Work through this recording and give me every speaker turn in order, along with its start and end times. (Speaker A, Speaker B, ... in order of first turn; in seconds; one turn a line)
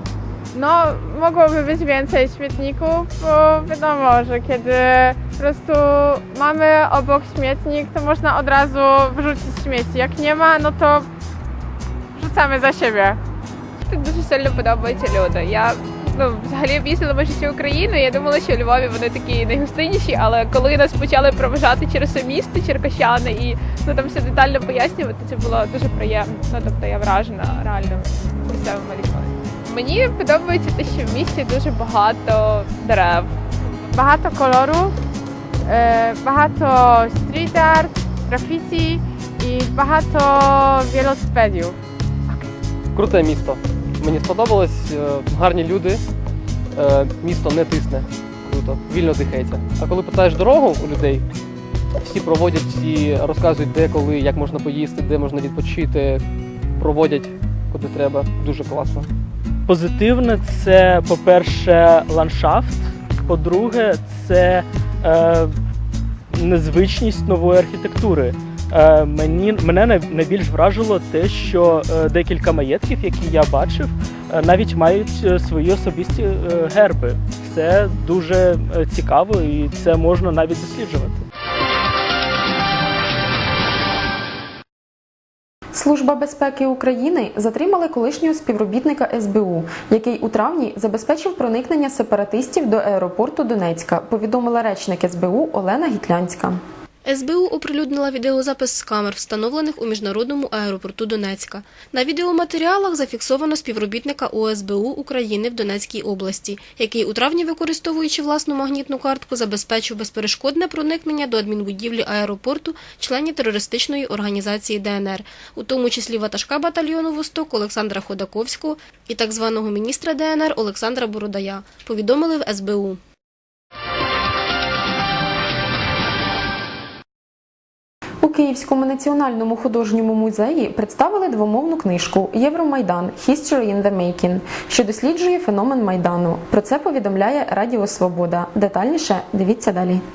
Speaker A: 0.5-11.1
Speaker A: 12.2-13.2
Speaker B: 13.8-33.4
Speaker A: 33.9-35.0
Speaker A: 35.7-41.8
Speaker C: 42.9-46.0
Speaker C: 46.7-51.3
Speaker C: 52.0-59.1
Speaker D: 59.7-65.6
Speaker D: 66.3-81.2
Speaker E: 85.8-96.6
Speaker F: 97.1-123.0
Speaker E: 128.2-140.0